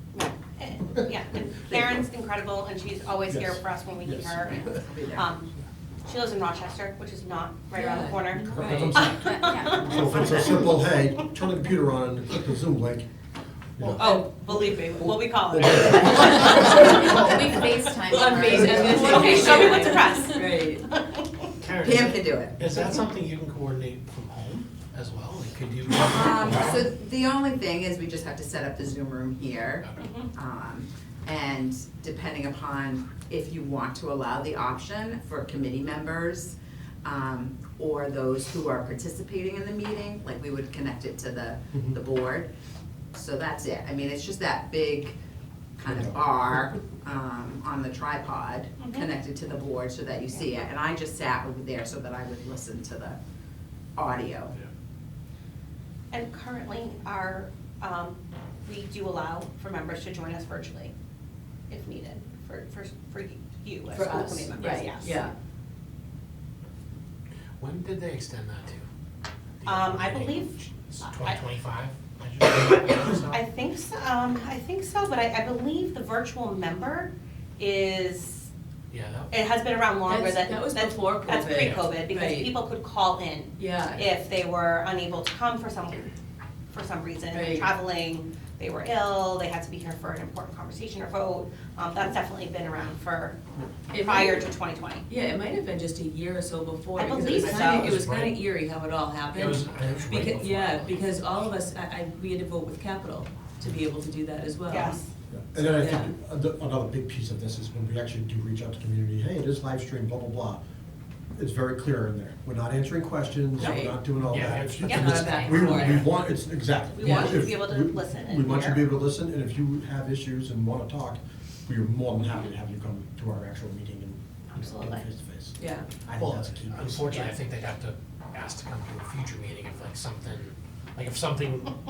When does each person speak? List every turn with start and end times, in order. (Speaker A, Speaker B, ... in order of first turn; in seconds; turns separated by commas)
Speaker A: 0.1-5.5, Speaker B: 3.3-4.7, Speaker C: 4.5-5.3, Speaker A: 6.0-10.4, Speaker D: 7.7-9.1, Speaker B: 8.4-13.1, Speaker E: 9.2-10.6, Speaker B: 13.8-14.6, Speaker A: 13.9-17.2, Speaker B: 15.5-17.4, Speaker E: 16.4-20.2, Speaker D: 18.0-20.9, Speaker A: 18.2-21.5, Speaker C: 18.6-18.9, Speaker F: 21.6-26.8, Speaker C: 21.8-22.9, Speaker C: 25.9-42.5, Speaker A: 30.0-30.2, Speaker C: 43.1-45.1, Speaker C: 45.8-53.2, Speaker B: 45.9-46.1, Speaker A: 48.8-49.1, Speaker C: 54.0-54.5, Speaker A: 56.1-60.9, Speaker A: 61.7-65.2, Speaker D: 63.9-65.3, Speaker F: 67.6-68.8, Speaker F: 69.6-73.4, Speaker A: 69.6-71.4, Speaker A: 73.1-78.5, Speaker F: 78.9-79.3, Speaker A: 79.3-86.1, Speaker D: 80.0-82.5, Speaker F: 81.6-81.8, Speaker D: 83.6-84.0, Speaker A: 86.7-93.4, Speaker D: 87.3-87.7, Speaker D: 93.9-94.5, Speaker A: 93.9-95.0, Speaker D: 95.1-105.0, Speaker A: 97.0-98.0, Speaker F: 97.4-98.4, Speaker F: 99.3-101.1, Speaker A: 104.7-105.1, Speaker B: 105.3-110.6, Speaker D: 105.5-106.1, Speaker B: 111.3-125.5, Speaker D: 113.5-114.0, Speaker F: 114.2-116.1, Speaker A: 114.8-115.2, Speaker D: 114.9-116.1, Speaker A: 116.9-118.8, Speaker D: 117.0-117.4, Speaker A: 124.5-125.0, Speaker D: 125.6-125.9, Speaker B: 126.0-127.3, Speaker F: 126.1-131.7